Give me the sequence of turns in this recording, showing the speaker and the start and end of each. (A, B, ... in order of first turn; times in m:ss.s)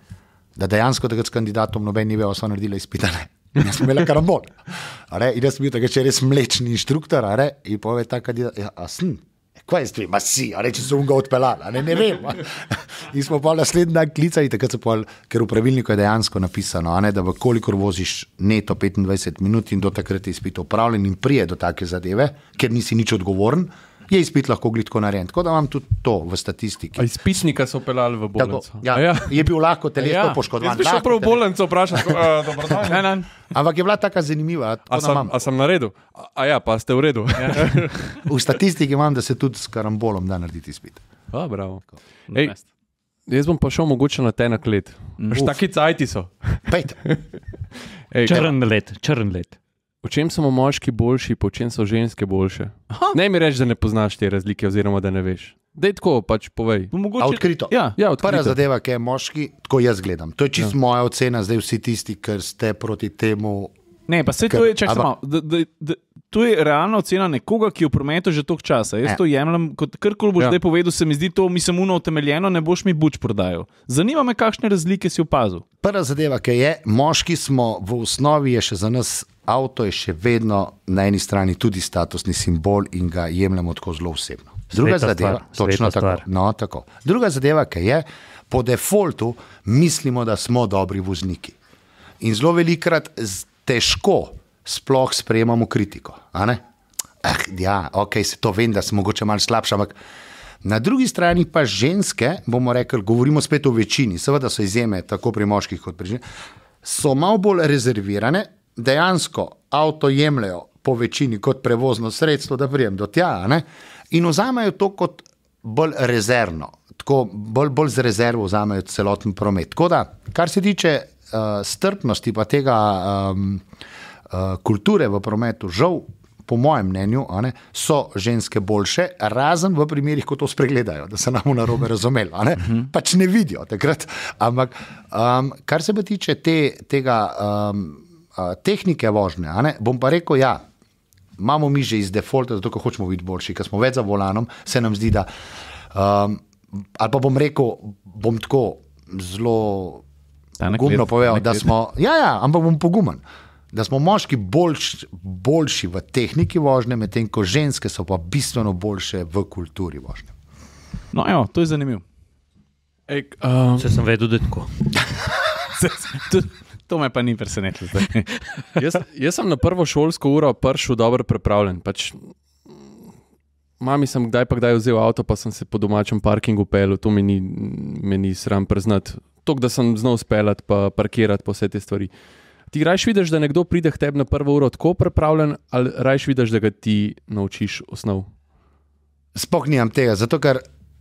0:00.5-0:27.0 A
0:27.0-0:29.4 B
0:28.4-0:31.4 A
0:30.0-0:30.4 C
0:30.6-0:33.1 B
0:31.9-0:32.8 A
0:32.8-0:33.3 C
0:33.5-0:35.3 A
0:34.9-0:38.2 B
0:37.4-0:37.8 C
0:38.2-0:41.0 A
0:41.3-0:42.5 B
0:42.3-0:42.6 C
0:43.3-0:47.2 B
0:45.2-0:45.5 C
0:46.7-0:47.0 A
0:48.1-0:48.5 B
0:48.2-0:49.6 D
0:50.0-0:56.9 B
0:52.9-0:53.2 C
0:56.9-0:58.0 C
0:57.2-1:03.7 A
0:58.0-0:58.6 B
1:04.1-1:15.6 C
1:04.5-1:05.1 A
1:15.8-1:31.6 A
1:24.7-1:26.2 D
1:32.2-1:36.6 A
1:37.2-1:39.9 A
1:40.6-1:46.2 A
1:46.8-2:03.6 A
2:04.3-2:20.6 A
2:21.4-2:25.3 A
2:25.9-2:26.4 A
2:27.0-2:30.0 A
2:30.6-2:31.6 C
2:30.7-2:40.3 A
2:41.1-2:42.0 C
2:43.1-2:44.0 B
2:43.8-2:44.7 D
2:45.7-2:48.3 C
2:48.8-2:52.7 B
2:53.8-3:02.1 B
3:02.7-3:08.3 B
3:09.3-3:10.6 A